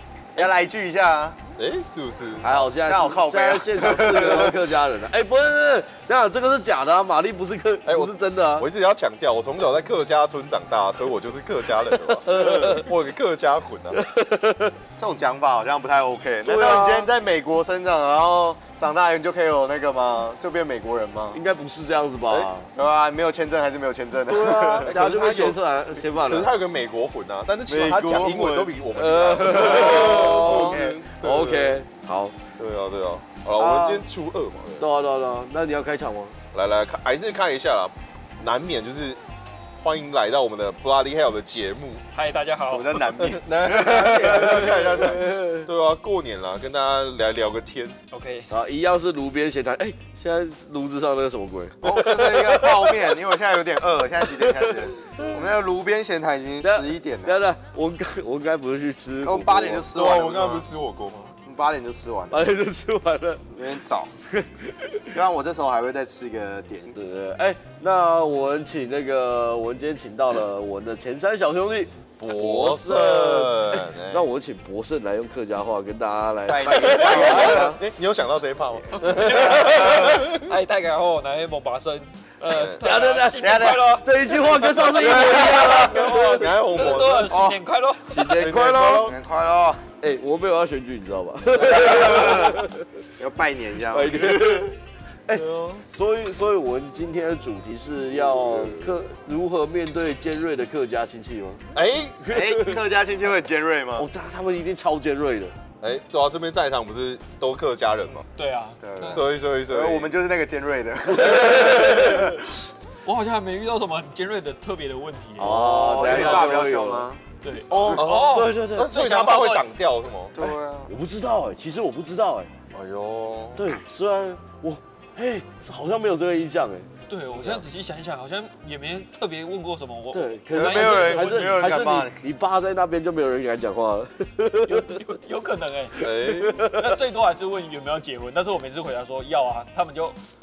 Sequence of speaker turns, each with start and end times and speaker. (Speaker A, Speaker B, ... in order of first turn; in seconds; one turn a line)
Speaker A: 0.3-1.4
Speaker B: 1.6-2.5
Speaker C: 2.4-8.7
Speaker A: 2.8-4.6
Speaker B: 7.9-14.0
Speaker C: 12.2-12.9
Speaker C: 13.9-14.7
Speaker A: 15.0-21.4
Speaker C: 16.4-17.1
Speaker C: 21.3-22.7
Speaker A: 22.8-25.1
Speaker C: 24.3-26.5
Speaker B: 24.8-25.6
Speaker B: 26.3-31.8
Speaker A: 27.7-28.7
Speaker C: 29.0-32.4
Speaker A: 29.5-30.9
Speaker B: 32.6-34.9
Speaker C: 33.6-34.0
Speaker C: 34.8-36.4
Speaker B: 36.5-39.2
Speaker B: 39.8-42.0
Speaker D: 42.1-43.1
Speaker A: 42.7-45.2
Speaker B: 43.2-48.0
Speaker C: 45.1-45.7
Speaker D: 48.1-48.5
Speaker C: 48.5-52.1
Speaker A: 51.8-57.4
Speaker C: 56.6-59.9
Speaker A: 59.2-60.7
Speaker B: 59.9-61.4
Speaker A: 61.4-62.5
Speaker C: 62.3-63.4
Speaker A: 63.5-64.1
Speaker C: 64.3-65.0
Speaker A: 65.1-66.9
Speaker C: 66.9-77.8
Speaker B: 72.2-74.3
Speaker A: 76.5-77.7
Speaker B: 76.7-80.5
Speaker D: 79.0-88.3
Speaker B: 82.5-82.8
Speaker C: 82.8-86.4
Speaker A: 83.4-84.0
Speaker B: 84.5-87.5
Speaker A: 87.3-87.6
Speaker C: 88.1-89.1
Speaker B: 88.2-89.2
Speaker A: 88.9-89.8
Speaker C: 90.0-92.8
Speaker A: 91.6-92.6
Speaker A: 93.2-94.7
Speaker C: 93.9-94.8
Speaker C: 95.3-101.6
Speaker B: 98.2-98.9
Speaker B: 101.7-102.2
Speaker C: 102.2-102.7
Speaker A: 102.3-104.1
Speaker C: 104.0-105.5
Speaker B: 105.8-108.3
Speaker D: 108.3-109.2
Speaker A: 108.8-112.4
Speaker B: 109.0-110.1
Speaker C: 111.3-112.1
Speaker D: 113.0-116.5
Speaker C: 115.4-117.1
Speaker A: 115.4-117.2
Speaker D: 117.4-119.7
Speaker C: 117.7-119.0
Speaker B: 117.9-120.4
Speaker A: 120.3-120.9
Speaker C: 120.4-122.5
Speaker B: 122.7-123.6
Speaker C: 123.6-126.9
Speaker D: 127.1-131.7
Speaker B: 127.3-127.6
Speaker C: 130.1-135.0
Speaker A: 130.5-132.2
Speaker D: 134.7-140.2
Speaker B: 136.0-136.7
Speaker C: 136.2-137.0